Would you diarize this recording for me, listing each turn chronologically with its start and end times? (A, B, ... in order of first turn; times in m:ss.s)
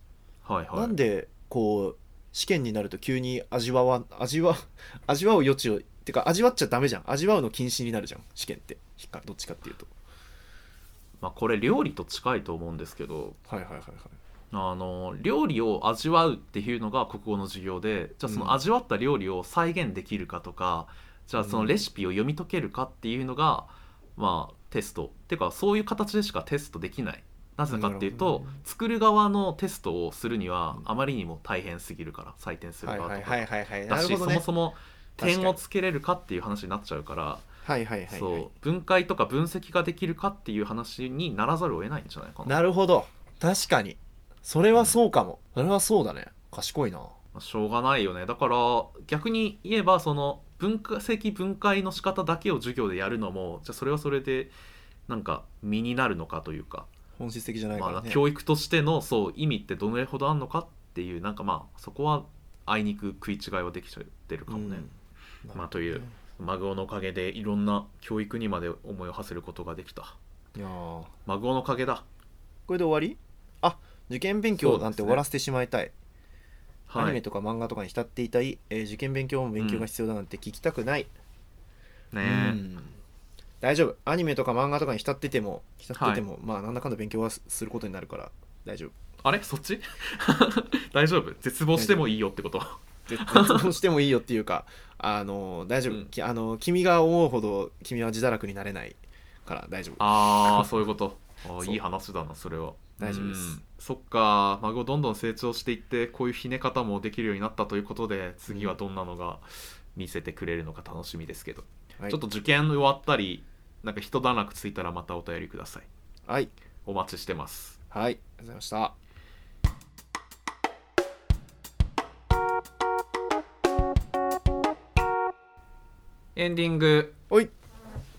0:00.4-0:01.0 A
0:00.7-0:09.9 B
0:11.2-0:13.4 A
0:13.5-0:14.2 B
0:14.5-0:37.4 A
0:18.2-0:18.6 B
0:21.4-0:21.8 B
0:27.7-0:28.5 B
0:32.8-0:34.4 B
0:35.2-0:35.6 B
0:37.6-0:38.5 B
0:38.1-0:42.6 A
0:42.4-0:47.1 B
0:47.3-0:54.5 A
0:55.1-0:56.9 A
0:57.2-0:58.2 B
0:57.8-1:04.8 A
1:04.5-1:04.9 B
1:05.4-1:06.1 B
1:05.5-1:10.2 A
1:10.5-1:11.1 B
1:11.2-1:12.0 A
1:12.7-1:15.9 B
1:14.6-1:15.2 A
1:16.9-1:17.2 A
1:17.0-1:21.1 B
1:19.6-1:19.8 A
1:22.1-1:22.6 A
1:22.2-1:23.0 B
1:23.6-1:28.9 B
1:26.0-1:26.2 A
1:29.2-1:33.7 A
1:31.7-1:32.0 B
1:33.1-1:40.7 B
1:40.0-1:55.9 A
1:43.0-1:43.6 B
1:56.3-1:56.5 B
1:56.8-1:57.8 A
1:57.9-1:58.9 B
2:06.4-2:07.2 A